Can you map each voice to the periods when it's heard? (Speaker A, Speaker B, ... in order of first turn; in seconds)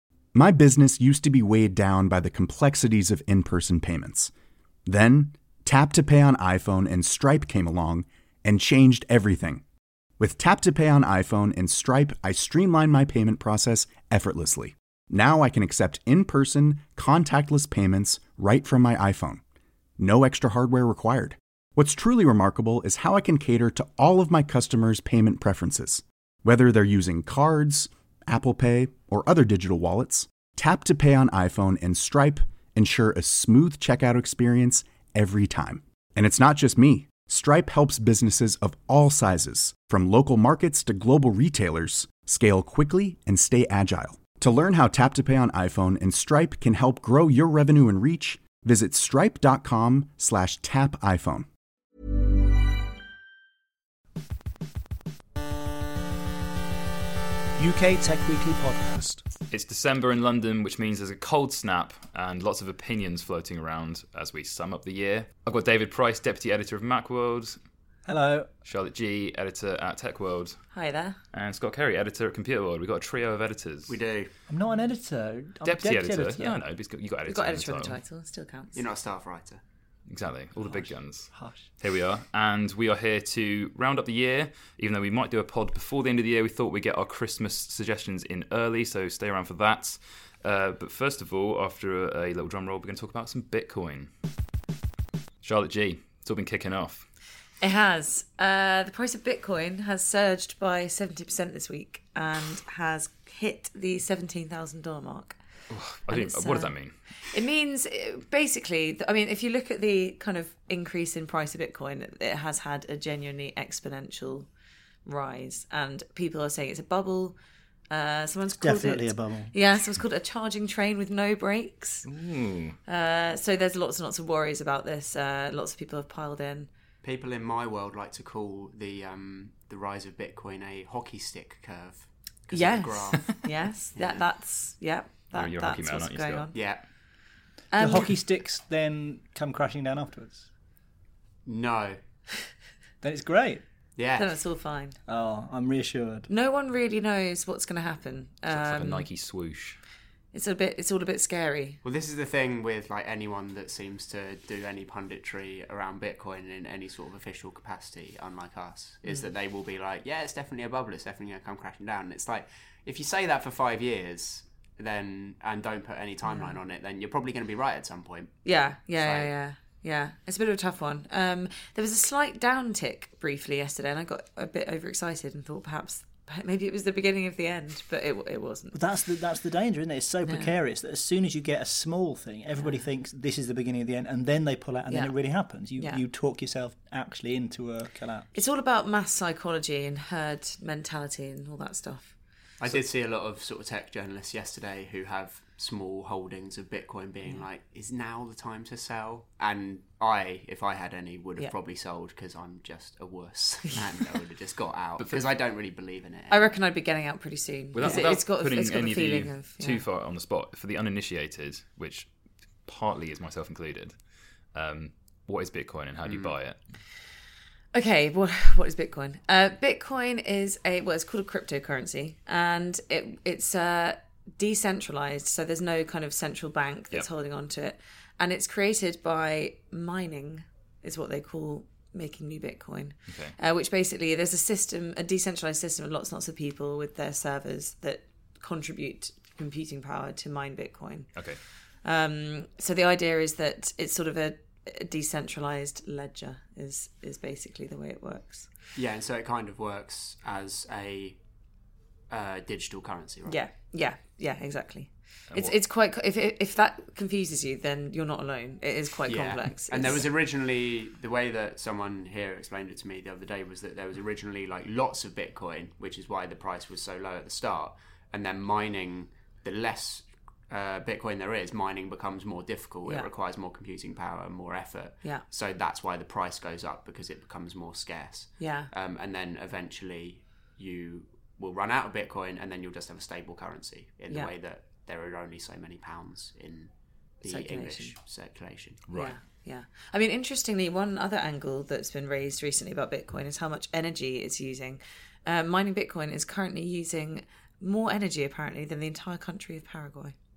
Speaker A: 0.3-4.3, 4.8-9.6, 10.2-19.4, 20.0-51.5
Speaker B: 57.6-59.0, 68.1-68.5, 74.5-76.6, 80.6-81.7, 118.5-119.5, 137.8-140.5, 143.0-143.6, 145.1-146.3, 178.7-188.3
Speaker C: 59.5-67.6, 68.7-70.6, 71.3-74.0, 75.6-78.0, 80.1-94.1, 95.4-97.1, 105.7-107.4, 122.0-122.8, 135.3-136.5, 148.5-149.8, 205.0-205.2, 207.7-212.1, 212.7-214.0, 214.5-216.6, 233.1-233.3, 241.2-241.4, 255.3-255.6, 288.9-289.1
Speaker D: 70.7-71.2, 77.2-78.8, 97.6-105.4, 106.1-106.7, 107.3-114.5, 115.1-117.4, 117.9-122.1, 122.9-126.7, 132.5-136.6, 137.7-138.2, 144.2-145.0, 146.3-149.1, 150.3-151.8, 166.2-166.6, 168.4-178.8, 180.2-180.5, 182.6-182.8, 184.9-186.0, 188.3-192.1, 206.3-209.8, 217.7-241.3, 241.8-248.5, 253.3-260.1, 278.4-278.7, 287.2-287.9, 288.9-300.1
Speaker E: 73.9-74.3, 78.7-79.6, 127.0-133.4, 136.5-136.8, 141.4-142.0, 144.0-144.3, 151.8-168.3, 169.0-169.3, 192.6-206.5, 207.8-208.1, 216.1-216.4, 248.8-251.2, 252.1-253.4, 259.1-286.7, 287.2-288.9